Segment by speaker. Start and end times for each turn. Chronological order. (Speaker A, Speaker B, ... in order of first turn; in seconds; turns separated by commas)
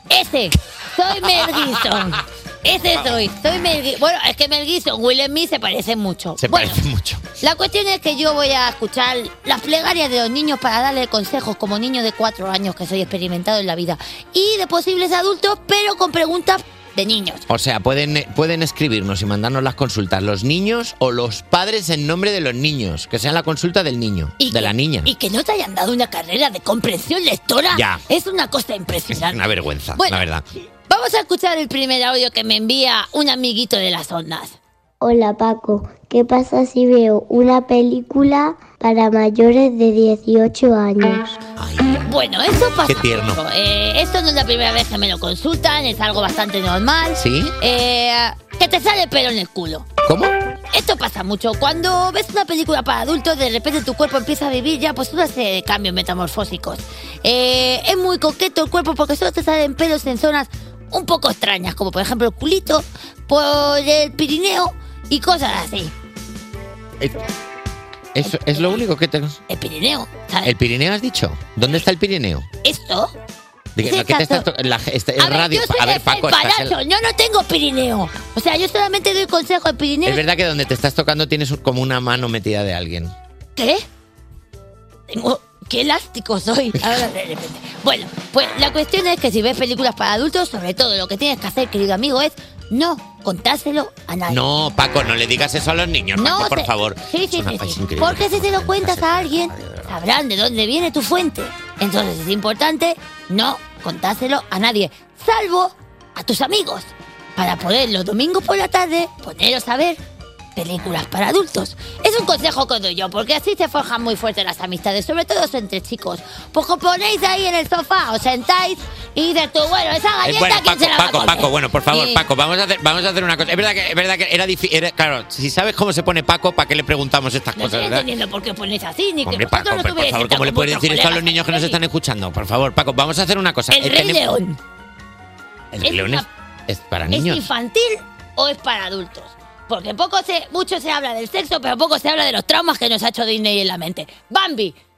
Speaker A: 0.1-6.8, Speaker B: 6.4-7.2, Speaker A: 7.4-17.4, Speaker B: 17.5-25.1, Speaker A: 24.4-29.4, Speaker B: 27.7-28.0, Speaker B: 29.1-30.4, Speaker A: 29.9-30.2, Speaker A: 30.9-34.5, Speaker C: 35.0-41.4, Speaker B: 41.6-42.0, Speaker A: 42.0-49.9, Speaker B: 42.9-43.4, Speaker B: 47.2-47.5, Speaker B: 50.0-50.3, Speaker A: 50.7-65.9, Speaker B: 68.2-69.4, Speaker A: 68.2-68.8, Speaker A: 69.5-70.5, Speaker B: 70.4-72.5, Speaker A: 72.6-73.1, Speaker B: 73.8-76.8, Speaker A: 73.8-74.5, Speaker A: 75.2-80.2, Speaker B: 80.0-83.1, Speaker A: 83.5-83.8, Speaker A: 85.1-94.4, Speaker B: 94.3-100.0, Speaker A: 96.2-110.0, Speaker A: 110.5-122.2, Speaker B: 120.2-128.1, Speaker A: 127.6-131.8, Speaker B: 129.2-134.4, Speaker A: 133.7-134.6, Speaker B: 135.7-137.4, Speaker A: 135.8-136.3, Speaker A: 137.1-144.8